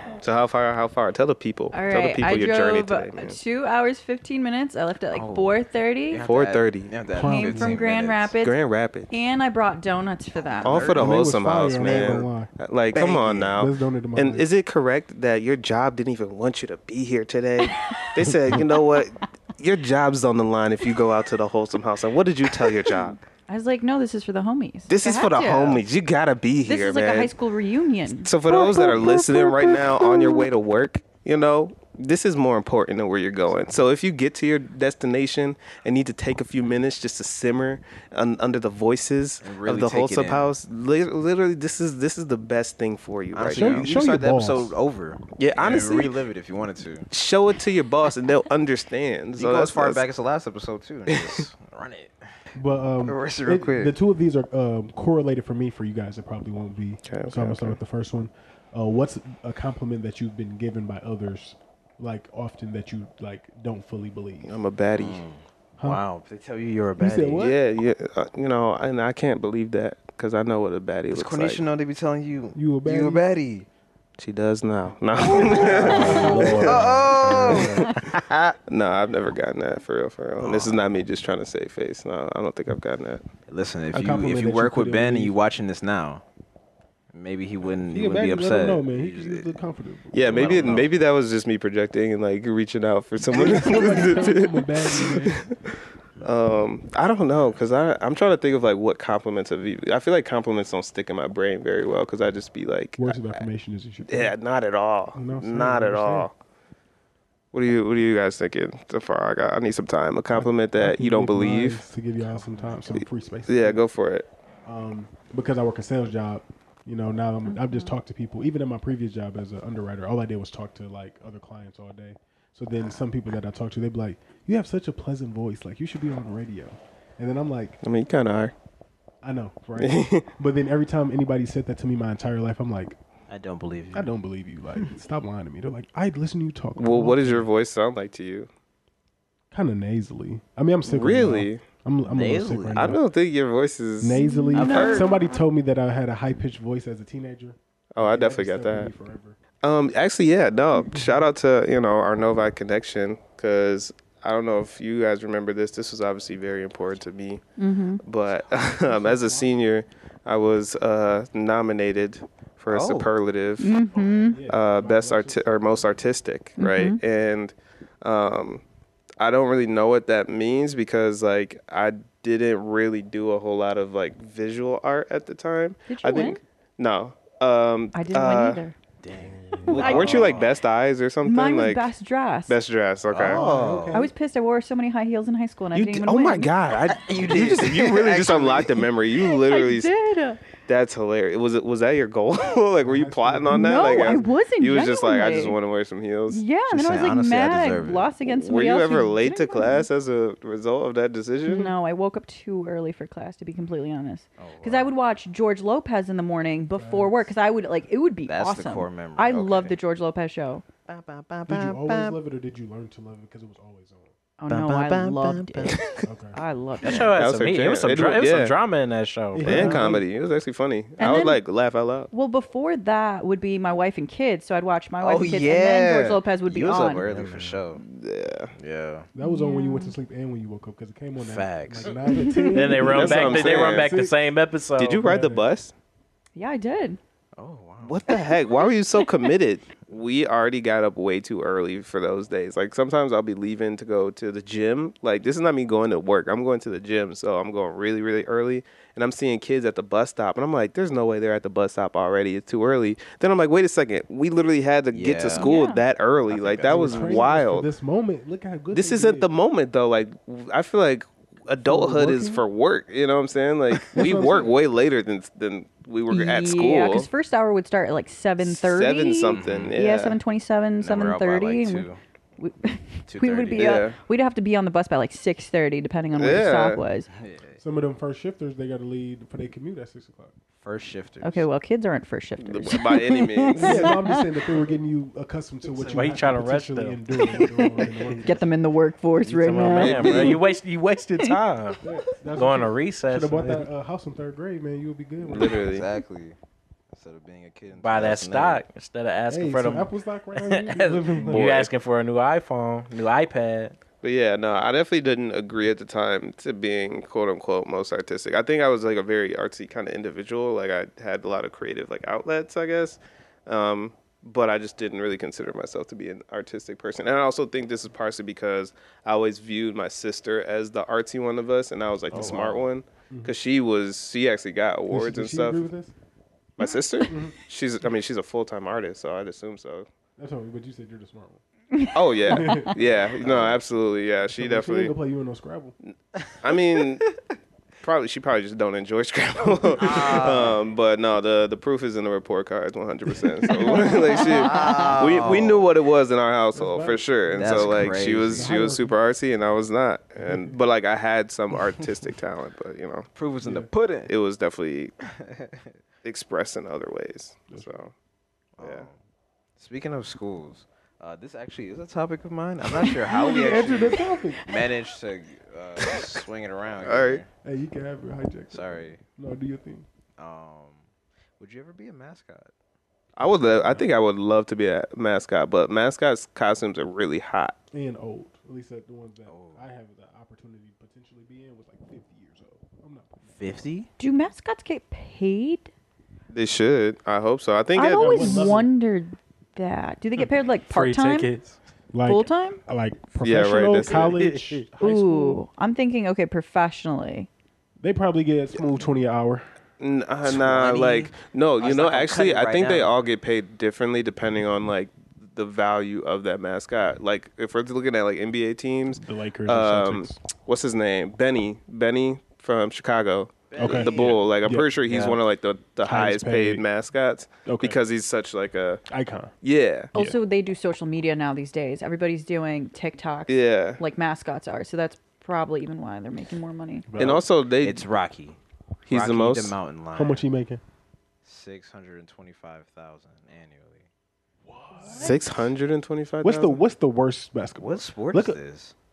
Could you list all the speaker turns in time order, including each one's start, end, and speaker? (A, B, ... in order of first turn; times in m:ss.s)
0:00.2-0:03.4 A
0:01.7-0:06.2 B
0:05.1-0:08.3 C
0:06.2-0:07.0 A
0:07.1-0:07.8 D
0:07.2-0:08.5 B
0:08.4-0:09.1 A
0:09.1-0:10.8 B
0:10.6-0:12.2 C
0:10.6-0:23.2 A
0:11.0-0:12.5 D
0:12.9-0:13.7 C
0:13.6-0:14.5 D
0:17.7-0:18.8 B
0:22.6-0:25.8 B
0:24.9-0:27.3 A
0:26.7-0:30.5 B
0:28.2-0:43.9 A
0:39.4-0:40.5 C
0:43.3-0:47.1 C
0:43.5-0:44.7 D
0:45.4-0:46.2 A
0:47.1-0:50.0 A
0:49.4-0:52.5 C
0:51.1-0:51.4 A
0:52.6-1:04.6 D
0:53.0-0:53.9 C
0:57.0-0:57.8 A
1:04.4-1:05.2 A
1:05.0-1:07.4 C
1:07.0-1:07.6 D
1:07.4-1:11.6 A
1:11.1-1:13.7 C
1:12.6-1:13.2 D
1:14.2-1:18.0 A
1:15.2-1:18.5 C
1:15.5-1:17.7 D
1:15.8-1:18.0 E
1:18.7-1:23.2 A
1:20.4-1:20.8 C
1:23.5-1:26.2 C
1:23.9-1:25.4 D
1:27.1-1:29.5 C
1:27.8-1:30.8 D
1:30.1-1:43.4 A
1:30.2-1:30.9 C
1:33.3-1:35.4 D
1:43.0-1:44.4 D
1:44.1-1:46.3 A
1:45.1-1:46.3 D
1:47.5-1:51.9 A
1:50.3-1:53.8 D
1:52.2-1:53.0 C
1:53.0-1:54.3 A
1:54.6-2:07.8 D
1:57.5-1:57.9 B
2:07.8-2:08.5 A
2:09.2-2:13.0 D
2:09.8-2:10.3 A
2:13.3-2:14.1 C
2:13.9-2:17.5 D
2:16.8-2:18.5 A
2:19.5-2:23.0 D
2:20.9-2:21.6 A
2:22.1-2:23.0 C
2:22.8-2:25.0 A
2:24.0-2:29.4 D
2:24.1-2:25.1 B
2:24.5-2:25.1 C
2:27.9-2:28.9 A
2:29.6-2:37.4 A
2:37.6-2:38.0 B
2:38.0-2:43.8 A
2:38.3-2:39.6 D
2:42.7-2:43.1 C
2:43.6-2:44.4 B
2:43.9-2:46.0 D
2:44.5-2:48.6 A
2:46.6-2:47.0 B
2:49.2-2:58.6 A
2:55.9-2:56.4 B
2:57.9-2:58.8 B
2:59.0-3:00.6 C
2:59.6-2:59.9 D
2:59.7-3:01.9 A
2:59.7-3:00.4 B
3:01.2-3:02.6 B
3:02.5-3:03.4 A
3:03.1-3:04.1 C
3:03.2-3:04.1 D
3:03.9-3:06.5 B
3:05.7-3:09.9 A
3:06.9-3:08.9 C
3:09.2-3:10.4 B
3:10.7-3:16.4 A
3:12.8-3:14.4 D
3:13.5-3:15.6 B
3:16.3-3:19.9 B
3:16.7-3:18.1 C
3:18.2-3:21.7 A
3:21.5-3:30.6 B
3:24.4-3:24.9 C
3:26.8-3:27.3 D
3:28.3-3:29.8 C
3:30.9-3:32.2 C
3:31.5-3:34.1 D
3:34.4-3:37.2 B
3:34.5-3:36.0 C
3:36.0-3:36.4 D
3:36.8-3:39.7 E
3:36.9-3:38.6 A
3:39.3-3:40.1 D
3:39.4-3:42.1 A
3:41.0-3:41.4 B
3:42.1-3:47.0 B
3:45.0-3:47.8 C
3:47.0-3:47.6 E
3:47.8-3:48.5 A
3:48.6-3:49.1 C
3:49.2-3:54.2 D
3:49.2-3:50.0 B
3:51.2-3:52.4 C
3:52.1-3:52.9 B
3:52.5-3:55.1 E
3:52.8-3:53.9 A
3:54.8-3:55.7 A
3:55.0-3:55.5 D
3:56.4-3:57.0 B
3:57.4-3:58.0 C
3:57.8-4:17.7 A
4:14.9-4:15.5 C
4:15.4-4:15.8 B
4:16.3-4:17.3 C
4:16.6-4:19.3 D
4:18.7-4:27.1 A
4:21.6-4:22.4 D
4:23.7-4:24.6 D
4:26.1-4:37.1 B
4:28.4-4:30.2 A
4:29.3-4:29.8 C
4:30.8-4:32.0 C
4:33.1-4:33.8 C
4:33.6-4:34.0 A
4:36.1-4:36.8 A
4:37.1-4:37.6 C
4:37.6-4:40.3 D
4:40.6-4:41.5 C
4:41.2-4:44.4 B
4:42.4-4:44.0 A
4:43.6-4:48.5 D
4:45.8-4:47.0 E
4:47.2-4:50.4 B
4:49.2-4:51.8 E
4:49.6-4:50.4 D
4:49.7-4:50.4 C
4:51.8-4:55.7 D
4:52.4-4:53.7 E
4:55.2-4:55.9 A
4:55.6-4:56.4 C
4:56.9-4:58.6 C
4:57.7-5:03.8 E
4:59.3-5:01.5 D
5:01.3-5:01.7 A
5:04.0-5:25.7 A
5:22.1-5:23.3 D
5:24.9-5:25.9 D
5:26.6-5:29.9 A
5:26.6-5:27.1 B
5:27.1-5:27.3 D
5:30.2-5:31.4 D
5:31.7-5:32.7 B
5:31.9-5:34.9 A
5:32.3-5:32.8 D
5:33.2-5:33.6 C
5:34.3-5:35.8 D
5:35.9-5:37.1 A
5:37.8-5:53.1 A
5:39.7-5:40.6 C
5:43.5-5:45.0 B
5:43.8-5:45.7 C
5:46.5-5:48.9 D
5:47.4-5:48.5 C
5:50.2-5:50.6 D
5:53.2-5:54.1 C
5:53.4-5:53.7 D
5:54.1-5:54.9 A
5:55.0-5:55.8 C
5:56.0-5:57.9 A
5:58.6-5:59.0 C
5:58.6-5:58.9 A
5:59.6-6:07.3 C
6:02.7-6:04.7 B
6:03.1-6:04.4 D
6:05.8-6:06.2 B
6:06.8-6:07.2 A
6:07.4-6:09.9 D
6:08.5-6:09.0 C
6:10.2-6:12.5 C
6:13.2-6:17.6 A
6:17.7-6:23.2 D
6:19.3-6:19.7 C
6:23.3-6:23.9 C
6:24.0-6:25.7 B
6:26.3-6:28.6 A
6:27.8-6:31.3 B
6:27.9-6:28.7 D
6:30.7-6:31.6 E
6:31.9-6:35.4 D
6:32.0-6:32.6 B
6:33.2-6:34.2 A
6:34.0-6:34.6 E
6:34.8-6:37.3 B
6:37.8-6:39.4 D
6:39.8-6:58.8 A
6:40.2-6:43.0 C
6:49.0-6:50.2 D
6:53.5-6:54.3 C
6:53.6-6:54.7 D
6:54.9-6:55.2 E
6:55.8-6:56.6 D
6:57.4-6:57.8 D
6:58.9-6:59.3 D
6:59.4-7:00.0 A
6:59.9-7:06.9 B
7:03.3-7:03.8 A
7:06.9-7:07.2 D
7:07.0-7:07.8 A
7:07.6-7:10.3 C
7:08.9-7:09.6 A
7:09.9-7:10.6 D
7:11.2-7:13.9 C
7:14.5-7:15.2 D
7:14.8-7:15.2 B
7:14.9-7:16.6 A
7:16.2-7:18.4 D
7:17.6-7:18.8 C